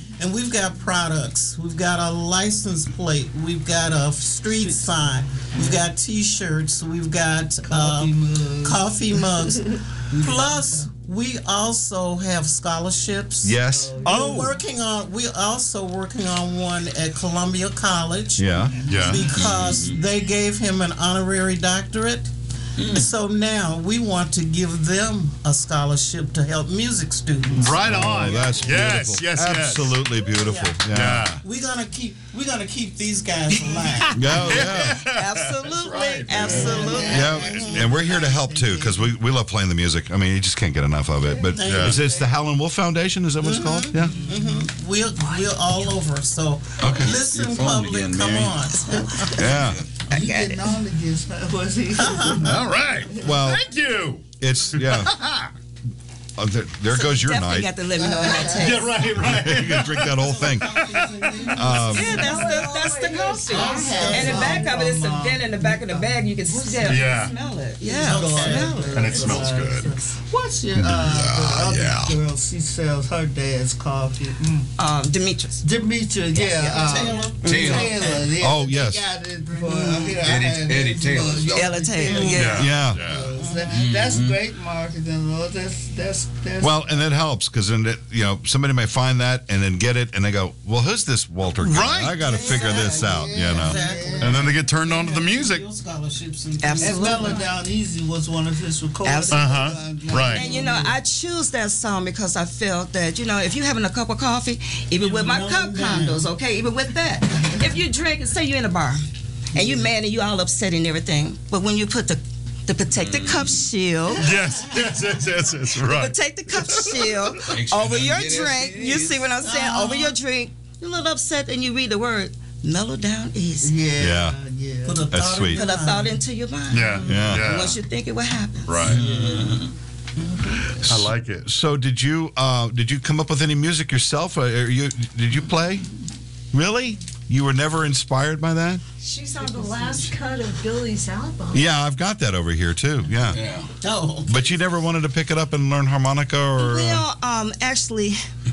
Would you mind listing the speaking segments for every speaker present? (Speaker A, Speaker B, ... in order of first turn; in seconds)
Speaker A: 0.2-22.3, 22.9-28.0, 30.4-30.8, 31.4-34.4, 36.3-37.9, 41.5-42.0, 43.4-49.3, 52.0-52.6, 60.0-62.6, 63.5-64.7, 68.0-68.8, 76.5-78.3, 79.6-80.2, 82.0-82.5, 83.3-83.7, 92.1-97.4, 105.0-106.3, 119.4-120.1, 124.8-126.2, 126.7-127.4, 128.9-129.6, 130.2-130.6, 143.8-144.4
Speaker B: 4.5-4.8, 5.5-5.8, 7.7-9.6, 10.1-10.8, 13.7-14.7, 18.7-19.5, 36.3-39.1, 41.3-42.1, 43.9-44.6, 50.1-53.5, 57.9-59.0, 63.5-74.7, 75.6-87.0, 92.3-94.6, 96.8-101.0, 123.6-125.1
Speaker C: 13.4-14.2, 18.4-18.9, 27.8-31.3, 34.1-35.0, 37.0-44.1, 46.8-47.1, 49.4-49.8, 53.2-53.7, 54.4-55.1, 56.4-57.7, 59.1-60.9, 61.5-62.2, 78.4-79.0, 82.5-83.0, 86.6-93.8, 124.0-124.4, 125.1-125.6, 127.0-127.5, 130.9-135.8, 136.5-138.8, 141.5-143.4, 144.3-147.0
Speaker D: 18.9-19.4, 27.5-30.0, 30.9-31.4, 33.7-37.0, 41.6-42.0, 52.4-55.5, 58.5-61.4, 66.8-67.3, 68.9-69.9, 70.8-72.2, 82.2-83.3, 91.6-92.2, 94.2-95.7, 99.3-100.5, 114.1-117.6, 126.7-127.8, 128.6-129.1, 130.8-131.5
Speaker E: 19.4-19.9, 22.8-23.1, 46.8-48.6, 49.4-49.8, 77.4-77.9, 80.2-81.9, 83.7-84.4, 112.9-113.7, 117.5-119.3, 128.8-129.7, 143.3-143.7
Speaker F: 34.7-37.5, 48.8-49.4, 50.1-50.8, 56.9-59.1, 61.9-69.5, 74.8-75.6, 76.4-78.0, 81.5-82.8, 96.6-97.4, 99.0-99.7, 100.3-114.3, 115.8-123.8, 125.5-128.8, 146.6-148.2
Speaker G: 61.7-64.2, 139.0-141.6